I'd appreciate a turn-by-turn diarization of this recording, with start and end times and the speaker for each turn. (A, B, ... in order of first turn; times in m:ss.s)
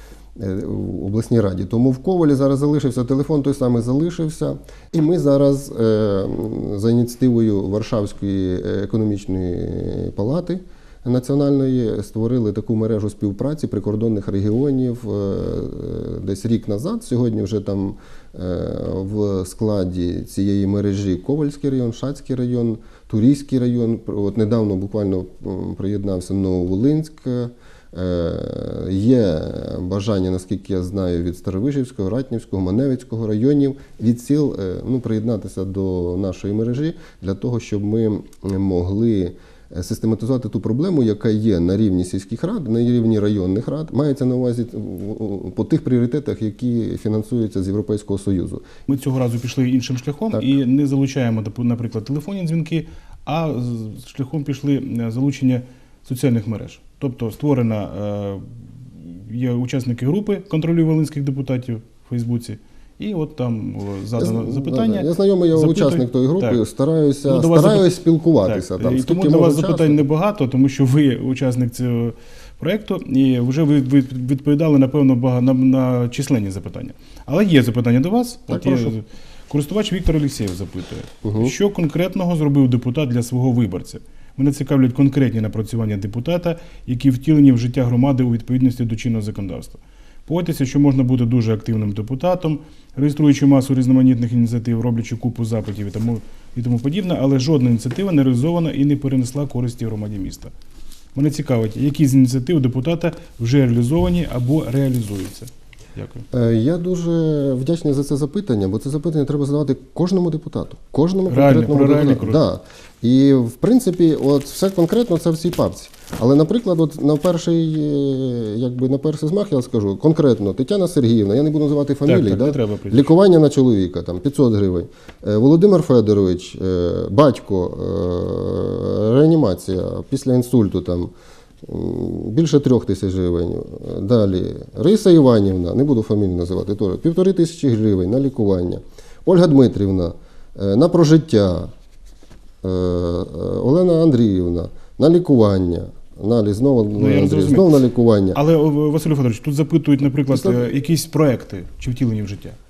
0:00.4-0:48.6 A
0:48.9-0:58.4 B
0:59.0-1:06.6 B
1:04.2-1:10.0 A
1:07.2-1:40.5 B
1:18.5-1:18.9 A
1:21.2-1:21.5 A
1:41.2-1:46.2 B
1:46.3-2:11.1 A
1:51.3-1:52.4 B
2:02.0-2:03.1 B
2:11.6-2:21.7 A
2:22.6-2:28.4 A
2:27.0-2:27.8 B
2:28.3-2:32.6 B
2:30.3-2:30.6 A